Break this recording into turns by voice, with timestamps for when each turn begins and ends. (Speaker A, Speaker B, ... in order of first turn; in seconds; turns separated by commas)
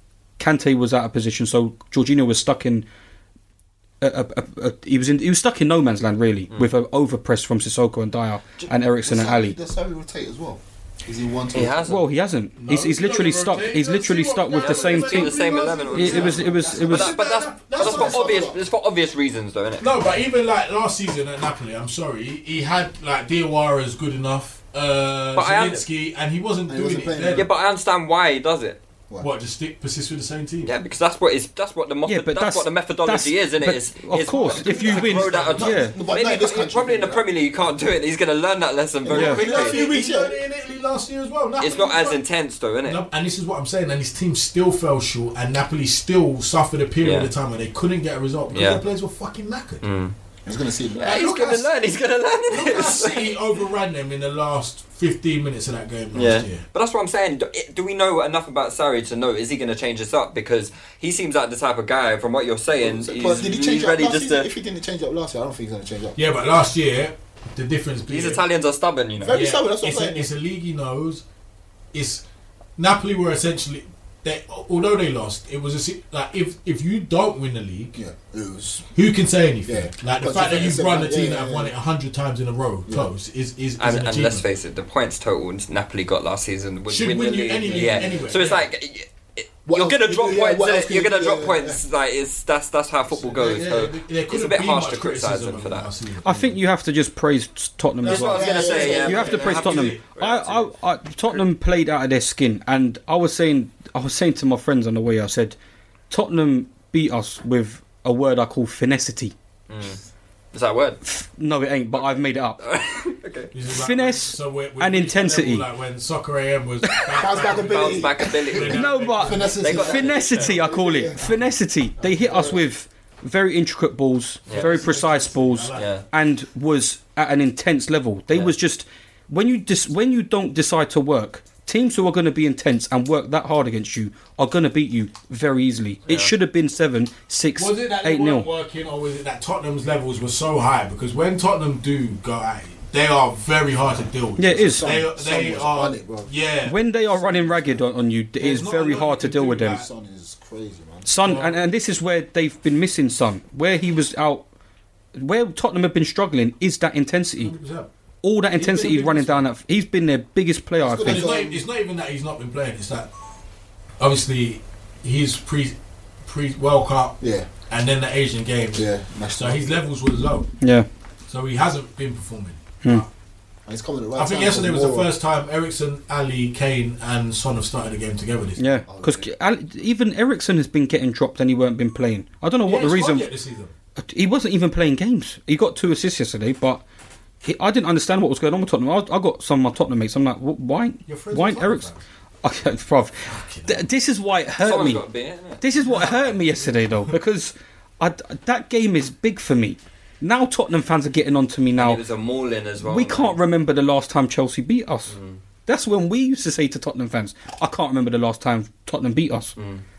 Speaker A: 0.4-2.9, Speaker A: 4.0-9.6, Speaker B: 9.0-11.9, Speaker C: 11.5-12.0, Speaker A: 11.8-15.4, Speaker D: 12.6-18.5, Speaker C: 14.6-19.9, Speaker A: 15.9-17.1, Speaker B: 16.3-16.9, Speaker B: 17.7-18.6, Speaker D: 19.8-27.5, Speaker C: 25.3-25.8, Speaker B: 26.7-27.5, Speaker C: 27.3-28.8, Speaker D: 29.2-30.7, Speaker C: 30.6-39.8, Speaker A: 32.1-35.9, Speaker D: 34.4-35.9, Speaker B: 35.5-37.2, Speaker B: 39.0-40.4, Speaker D: 39.1-42.2, Speaker A: 39.1-39.4, Speaker C: 41.6-43.0, Speaker D: 42.8-49.8, Speaker C: 47.0-47.3, Speaker C: 48.5-48.8, Speaker C: 49.8-50.1, Speaker B: 50.4-51.3, Speaker C: 50.9-53.4, Speaker D: 51.0-51.7, Speaker D: 52.5-56.6, Speaker C: 56.1-64.5, Speaker B: 62.8-66.2, Speaker D: 66.2-68.4, Speaker C: 68.1-69.4, Speaker B: 69.2-70.3, Speaker D: 69.3-71.2, Speaker D: 71.9-72.2, Speaker D: 72.8-78.0, Speaker B: 77.9-78.9, Speaker D: 78.9-84.4, Speaker B: 79.6-81.7, Speaker C: 83.8-95.9, Speaker D: 86.9-88.7, Speaker B: 87.7-88.2, Speaker B: 89.7-91.8, Speaker D: 93.1-96.6, Speaker A: 96.2-105.5, Speaker D: 98.0-100.0, Speaker C: 98.0-100.7, Speaker B: 98.1-99.6, Speaker A: 106.1-109.3, Speaker C: 109.7-110.0, Speaker C: 110.5-111.0, Speaker A: 111.0-112.6, Speaker C: 112.6-113.5, Speaker D: 113.5-120.6, Speaker A: 113.7-115.7, Speaker B: 117.1-121.3, Speaker C: 117.2-118.9, Speaker A: 118.7-138.5, Speaker C: 119.6-120.4, Speaker D: 122.0-122.6, Speaker C: 124.5-124.7, Speaker D: 124.5-125.9, Speaker C: 125.7-126.0, Speaker D: 137.6-146.8, Speaker A: 144.4-145.0, Speaker B: 144.4-146.3, Speaker A: 146.7-149.8, Speaker B: 147.2-147.7, Speaker D: 148.4-149.9, Speaker B: 149.6-151.2, Speaker A: 151.0-154.5, Speaker D: 151.2-151.6, Speaker A: 155.1-157.5, Speaker D: 157.4-157.9, Speaker A: 158.2-161.3, Speaker D: 158.5-159.5, Speaker B: 160.8-161.6, Speaker D: 161.0-163.1, Speaker D: 164.0-170.5, Speaker B: 167.2-167.5, Speaker B: 168.7-169.8, Speaker A: 170.6-170.9, Speaker D: 171.3-173.1, Speaker B: 173.7-175.1, Speaker D: 174.2-178.6, Speaker A: 178.6-183.3, Speaker B: 178.8-179.3, Speaker D: 182.6-183.7, Speaker A: 184.0-186.8, Speaker A: 187.4-191.9, Speaker D: 191.1-192.0, Speaker A: 192.4-195.0, Speaker D: 193.3-193.8, Speaker C: 194.6-195.6, Speaker A: 195.6-202.0, Speaker D: 195.8-197.2, Speaker C: 201.8-203.3, Speaker A: 202.8-209.6, Speaker C: 205.1-205.4, Speaker C: 209.6-209.8